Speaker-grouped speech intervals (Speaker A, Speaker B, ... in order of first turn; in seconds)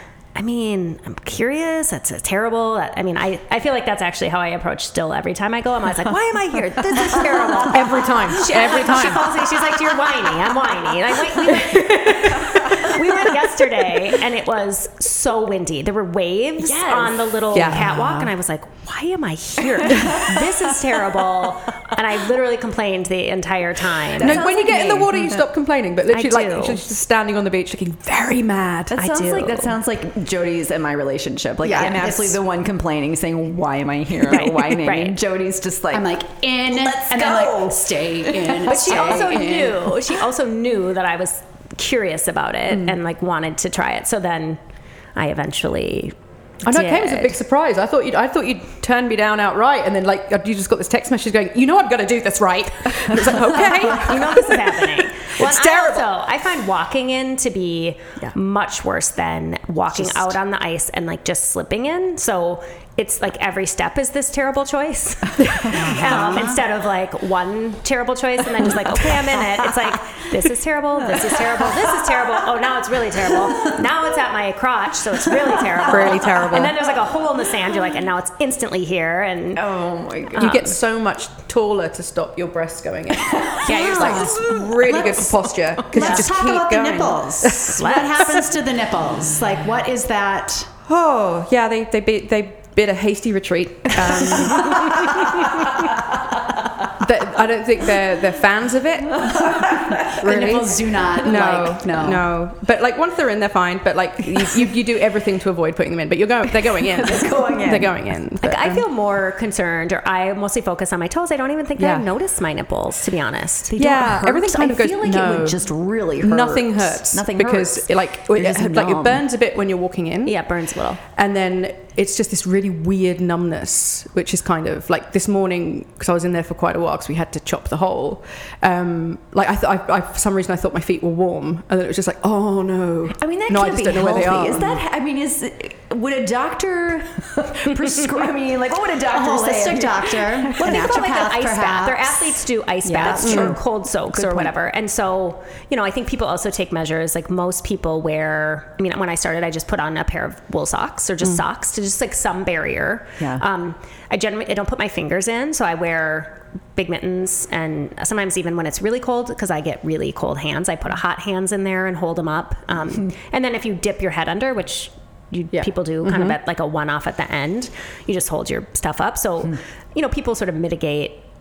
Speaker A: 0.3-24.5, 26.1-26.8, 29.0-29.7, 34.3-35.2, 38.7-44.6, 45.1-47.4, 53.5-79.6, 80.3-80.7, 83.7-84.6, 86.0-86.3, 87.8-88.5, 108.4-113.7, 120.2-121.0, 140.6-171.2
Speaker B: 7.1-7.7, 16.6-17.6, 19.8-22.0, 24.0-25.4, 28.9-39.5, 65.9-66.4, 69.1-69.8, 71.0-72.5, 73.1-73.8, 75.7-76.0, 79.5-80.7, 84.4-84.7, 99.2-100.1, 101.3-101.6, 106.7-108.1, 113.7-119.3, 133.2-141.0, 143.1-143.6, 153.2-153.4
Speaker C: 7.7-9.2, 11.4-13.5, 17.5-18.3, 24.2-29.0, 46.7-56.1, 59.9-60.4, 65.5-66.1, 75.9-76.8, 80.4-88.5, 90.9-96.0, 97.0-108.8, 111.8-112.1, 113.8-134.8, 143.2-143.6, 165.5-166.4
Speaker D: 31.6-32.4, 35.9-39.8, 65.8-66.6, 83.7-90.7, 100.2-102.3, 139.1-143.5, 144.1-144.5